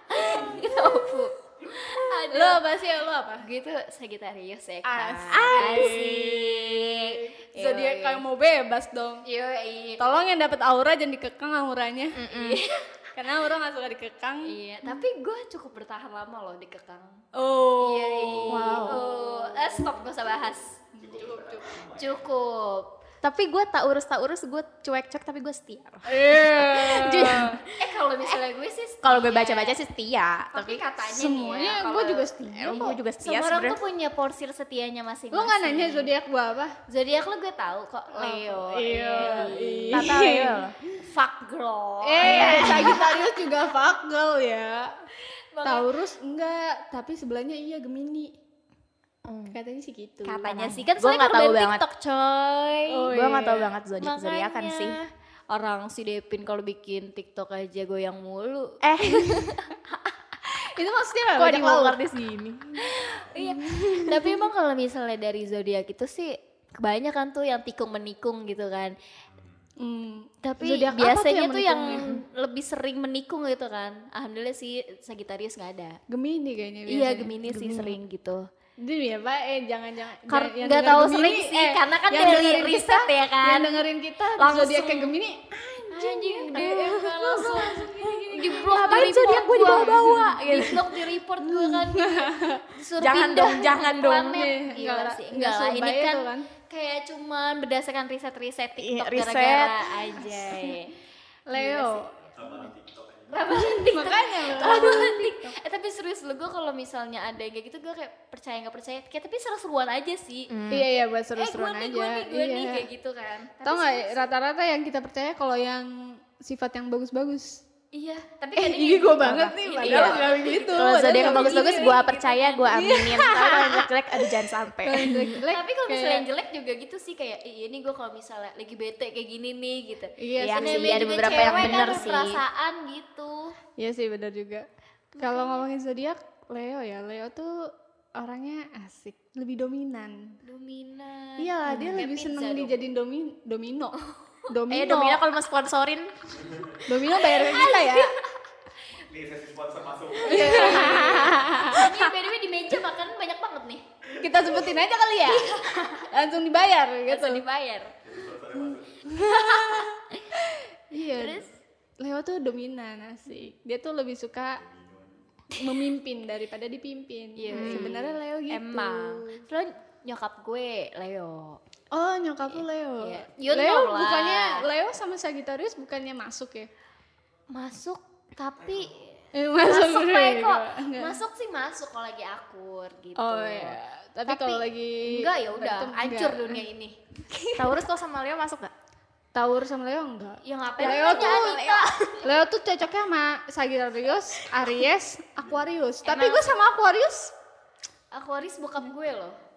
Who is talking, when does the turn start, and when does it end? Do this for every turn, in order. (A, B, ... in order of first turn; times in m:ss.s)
0:00.1-0:02.6 A
0:00.2-0:00.6 B
0:01.9-0:03.4 C
0:03.4-0:08.2 A
0:04.8-0:09.2 C
0:05.1-0:06.2 D
0:09.2-0:10.0 A
0:10.0-0:12.2 C
0:12.1-0:12.6 D
0:12.3-0:12.9 A
0:13.1-0:14.5 C
0:14.4-0:17.3 A
0:17.3-0:19.0 C
0:17.8-0:20.8 A
0:18.5-0:19.0 D
0:21.0-0:22.3 B
0:21.0-0:21.8 C
0:22.0-0:22.9 A
0:23.2-0:27.7 D
0:26.0-0:27.6 C
0:27.7-0:29.8 A
0:29.0-0:30.8 D
0:30.5-0:36.1 A
0:31.0-0:33.0 C
0:32.4-0:33.8 D
0:35.3-0:36.8 C
0:36.9-0:40.1 A
0:38.1-0:40.7 C
0:39.2-0:40.7 D
0:41.0-0:43.2 A
0:42.0-0:44.9 C
0:42.2-0:43.0 D
0:45.5-0:45.9 A
0:45.6-0:48.3 C
0:49.2-0:49.6 D
0:49.5-0:50.8 C
0:50.2-0:53.1 A
0:50.9-0:51.8 D
0:52.9-0:53.7 C
0:53.1-0:55.0 D
0:54.0-0:59.6 A
0:58.8-0:59.5 D
1:00.6-1:02.1 C
1:01.3-1:02.8 D
1:02.8-1:09.0 A
1:03.4-1:04.1 C
1:09.3-1:09.6 B
1:09.8-1:12.1 C
1:10.4-1:16.0 A
1:16.1-1:17.4 C
1:16.9-1:18.5 A
1:17.5-1:17.9 D
1:18.8-1:30.4 C
1:20.3-1:23.8 A
1:24.4-1:25.2 A
1:25.9-1:41.0 A
1:28.3-1:31.0 D
1:31.4-1:32.6 C
1:33.0-1:34.5 D
1:34.2-1:36.5 C
1:38.8-1:40.0 D
1:41.5-1:42.1 C
1:41.5-1:42.3 A
1:42.3-1:43.8 B
1:43.3-1:50.5 A
1:43.5-1:45.5 C
1:50.5-1:50.9 D
1:50.7-1:52.9 C
1:51.4-1:54.3 A
1:53.6-1:57.6 C
1:57.9-2:02.7 A
1:58.6-2:02.1 C
1:59.8-2:05.4 D
2:02.7-2:06.2 C
2:05.4-2:13.6 A
2:10.2-2:12.2 C
2:10.4-2:12.4 D
2:13.8-2:14.7 C
2:15.2-2:15.7 A
2:15.2-2:20.4 C
2:20.4-2:22.8 A
2:21.4-2:25.2 C
2:21.7-2:22.0 D
2:24.7-2:26.1 D
2:26.4-2:26.8 B
2:26.8-2:28.1 C
2:27.3-2:28.2 A
2:29.1-2:31.6 B
2:30.2-2:33.8 A
2:30.2-2:31.9 C
2:34.2-2:35.5 C
2:34.2-2:34.6 B
2:35.2-2:36.0 A
2:35.7-2:36.0 D
2:36.1-2:37.4 C
2:37.1-2:37.9 A
2:38.0-2:39.4 B
2:39.1-2:41.4 C
2:39.3-2:40.3 A
2:41.1-2:41.5 A
2:42.0-2:44.6 C
2:44.5-2:45.2 B
2:45.5-2:49.4 C
2:47.4-2:51.6 A
2:47.5-2:48.0 D
2:51.9-2:56.7 C
2:53.0-2:54.7 A
2:57.5-3:07.7 A
2:59.3-3:01.2 C
3:03.2-3:06.6 C
3:07.6-3:08.7 D
3:09.3-3:11.6 C
3:10.4-3:12.2 A
3:10.8-3:12.2 D
3:12.2-3:17.3 C
3:16.0-3:16.5 A
3:18.1-3:19.4 A